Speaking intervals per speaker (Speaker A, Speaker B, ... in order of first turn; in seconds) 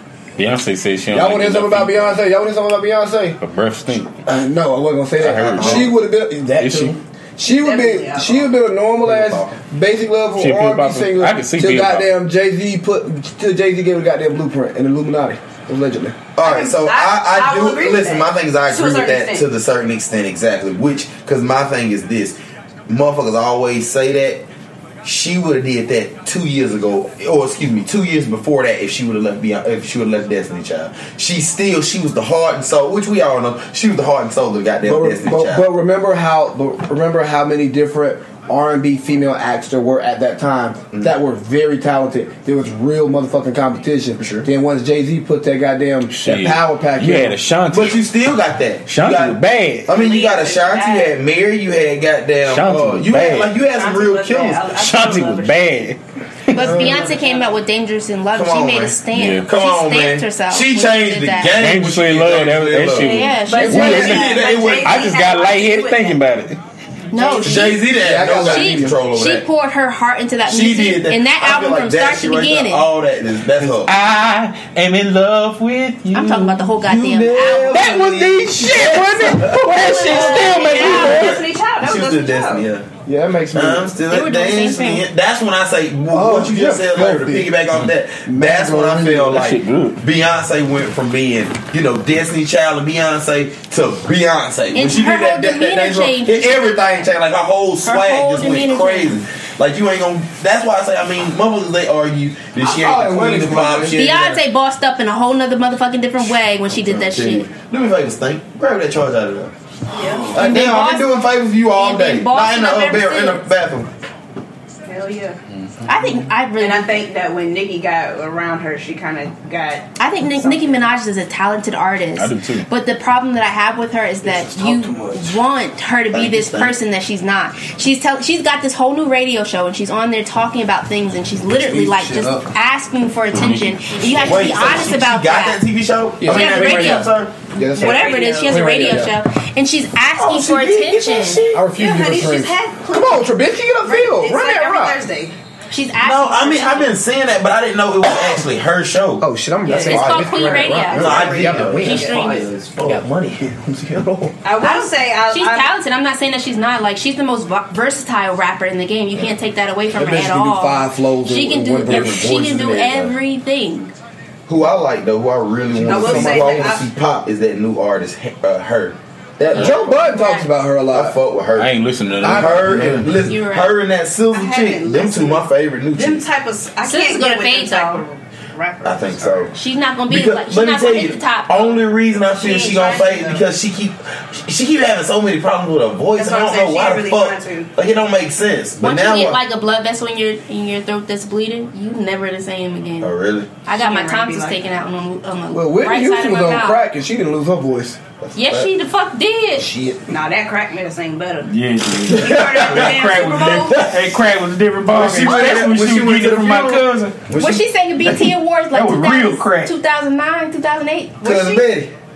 Speaker A: 0.4-2.2, 3.4-4.2, 5.2-5.9, 6.6-7.0, 10.4-12.1, 46.1-48.0, 48.9-49.9, 52.4-53.5, 54.7-56.8, 59.1-59.5, 61.5-66.6, 73.6-76.7, 77.7-81.4, 89.2-90.0, 122.2-122.7, 133.4-133.8, 171.5-173.1, 201.4-207.2, 208.1-209.7
Speaker B: 1.1-3.4, 4.2-16.2, 34.8-47.4, 56.5-57.1, 63.7-64.0, 68.0-69.0, 83.0-84.0, 86.1-87.5, 88.2-89.4, 102.6-104.4, 124.2-125.4, 131.6-132.5, 136.2-139.2, 141.5-145.0, 149.2-154.3, 159.9-162.3, 165.7-166.8, 169.5-171.2, 172.2-173.1, 195.5-198.0, 199.6-200.1
Speaker C: 5.2-5.9, 9.0-9.6, 16.4-22.4, 22.9-24.5, 25.0-35.6, 44.2-44.5, 47.7-54.7, 58.3-65.1, 67.2-69.4, 70.5-73.9, 76.8-82.9, 83.5-104.4, 106.7-109.5, 110.2-113.9, 126.1-126.8, 134.0-137.3, 140.1-141.7, 146.0-153.7, 161.8-163.1, 164.5-169.9, 170.9-176.2, 178.8-179.6, 180.1-189.4, 193.0-193.5, 198.2-198.7, 202.1-203.0, 203.7-204.1, 204.9-207.6, 211.2-211.9
Speaker D: 7.5-8.5, 16.4-19.5, 49.9-51.1, 53.6-55.7, 56.8-57.5, 63.4-66.2, 67.2-67.6, 79.8-82.7, 109.9-110.4, 114.9-115.4, 116.6-120.8, 137.8-139.0, 141.7-143.3, 143.8-145.3, 151.1-152.4, 154.4-155.7, 165.8-166.9, 174.3-179.5, 182.3-183.4, 186.1-187.7, 193.7-194.6, 200.1-201.5, 202.1-203.9, 211.2-211.6
Speaker E: 56.5-61.5, 62.9-64.4, 67.1-67.8, 68.4-72.9, 76.1-78.0, 79.8-81.2, 84.1-85.0, 94.7-96.9, 97.8-99.2, 103.9-107.5, 110.3-113.5, 115.8-117.0, 120.0-135.6, 136.2-137.1, 137.8-141.4, 145.7-146.9, 149.7-152.5, 154.6-163.9, 169.6-170.5, 173.2-173.8, 176.8-178.0, 179.5-181.8, 188.8-193.1, 193.6-196.8, 198.3-199.7, 207.3-211.5